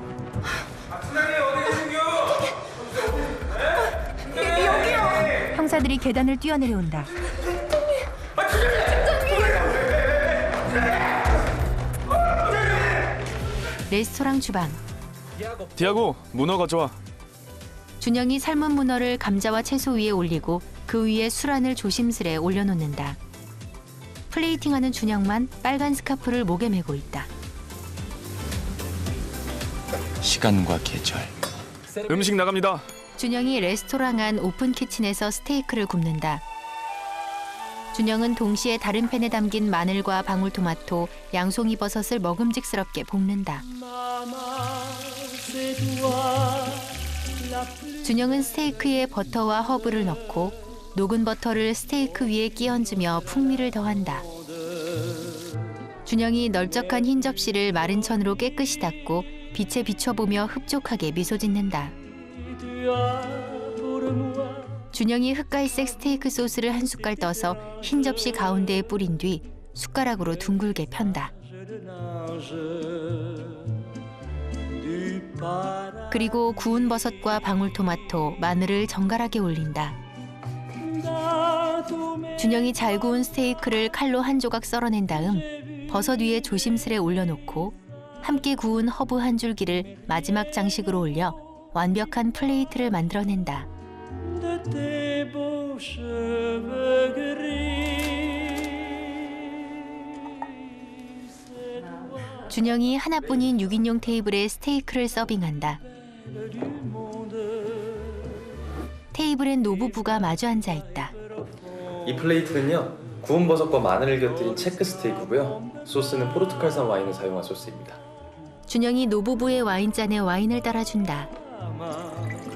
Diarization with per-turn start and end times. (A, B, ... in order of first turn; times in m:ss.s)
0:05.4-0:07.1 A
0:13.9-0:14.8 A
0:15.8-0:17.0 B
0:18.0-0:23.2 A
0:24.3-0:27.3 A
0:30.2-0:31.3 C
0:32.1-0:32.8 B
0:33.2-0:36.4 A
0:37.9-0:43.7 A
0:45.0-0:46.8 A
0:47.9-0:54.3 A
0:56.0-1:02.0 A
1:04.9-1:11.3 A
1:16.1-1:20.0 A
1:22.3-1:33.7 A
1:35.6-1:36.0 A
1:42.5-1:45.8 A
1:49.1-1:51.1 A
1:52.0-1:58.0 C
1:58.7-2:01.3 A